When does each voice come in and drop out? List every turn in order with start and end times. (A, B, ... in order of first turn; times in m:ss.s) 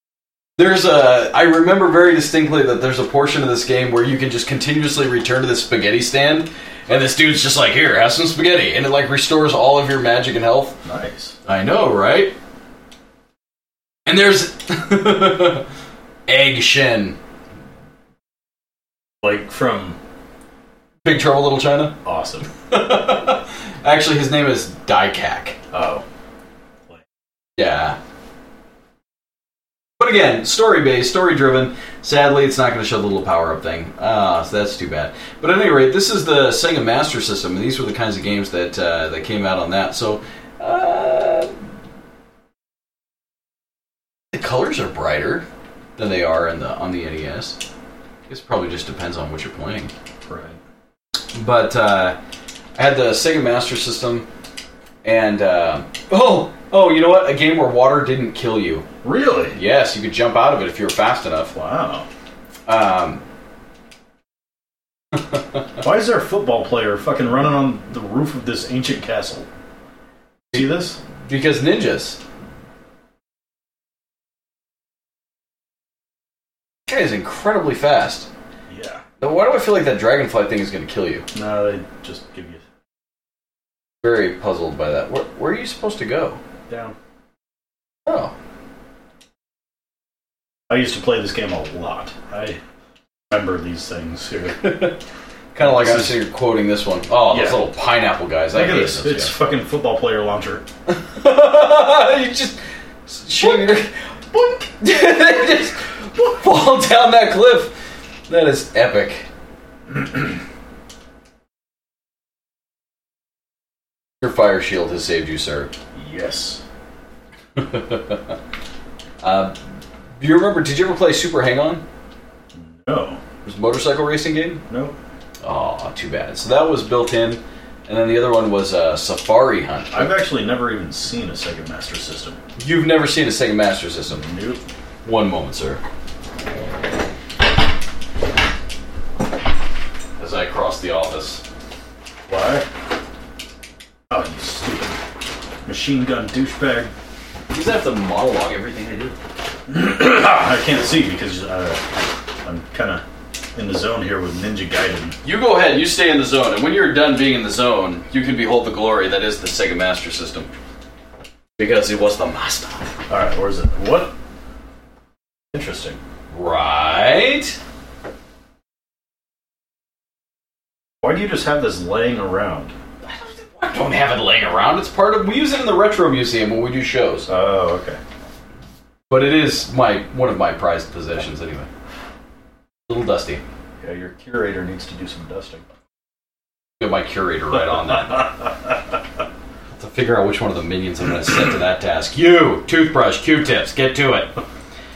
0:00.6-0:10.8 A
0:10.8-0:11.4 B
0:11.5-0:12.3 A
0:14.1-0:15.6 A
0:16.3-0:17.2 A
0:19.2-0:20.0 B
0:21.0-0:22.0 A
0:22.0-0:22.5 B
0:22.7-0:25.6 A
0:25.7-0:26.0 B
0:27.6-0:28.0 A
0:30.0-0:41.5 A
0:44.3-0:45.4 A
0:46.0-0:47.6 A
0:48.3-0:49.9 A
0:50.3-0:50.6 B
0:51.3-0:52.2 A
0:52.8-0:54.3 A
0:55.0-0:58.8 A
0:59.0-0:59.6 B
0:59.5-1:01.5 A
1:01.5-1:02.1 B
1:02.7-1:03.2 A
1:05.8-1:09.5 B
1:10.5-1:11.0 B
1:11.2-1:12.2 A
1:16.9-1:18.3 A
1:18.7-1:19.0 B
1:19.2-1:21.3 A
1:21.3-1:22.6 B
1:24.0-1:26.4 A
1:26.7-1:27.0 B
1:28.1-1:28.3 A
1:30.7-1:32.6 B
1:33.3-1:34.8 B
1:34.6-1:35.0 A
1:35.5-1:39.4 A
1:35.6-1:36.2 B
1:37.3-1:37.6 B
1:38.5-1:40.6 B
1:40.9-1:47.7 A
1:48.3-1:49.3 A
1:54.2-1:55.7 A
1:55.9-1:56.6 B
1:57.6-1:58.3 A
1:59.2-1:59.6 A
2:00.2-2:01.8 A
2:02.5-2:03.2 B
2:03.4-2:04.6 A
2:04.7-2:05.0 B
2:05.4-2:10.1 A
2:09.9-2:12.4 B
2:12.6-2:14.2 A
2:14.1-2:14.6 B
2:15.0-2:15.8 A
2:20.2-2:21.4 A
2:22.3-2:22.7 B
2:24.1-2:25.0 B
2:25.7-2:26.9 B
2:27.5-2:29.2 A
2:29.7-2:33.0 B
2:33.6-2:35.2 B
2:35.2-2:40.5 A
2:41.6-2:43.0 A
2:43.1-2:44.1 B
2:45.5-2:46.0 B
2:46.3-2:47.6 A
2:51.0-2:52.7 B
2:53.0-2:57.3 A
2:57.3-2:58.0 B
2:59.1-3:01.7 A
3:02.9-3:03.4 A
3:03.8-3:05.6 B
3:06.8-3:08.4 A
3:09.8-3:14.3 A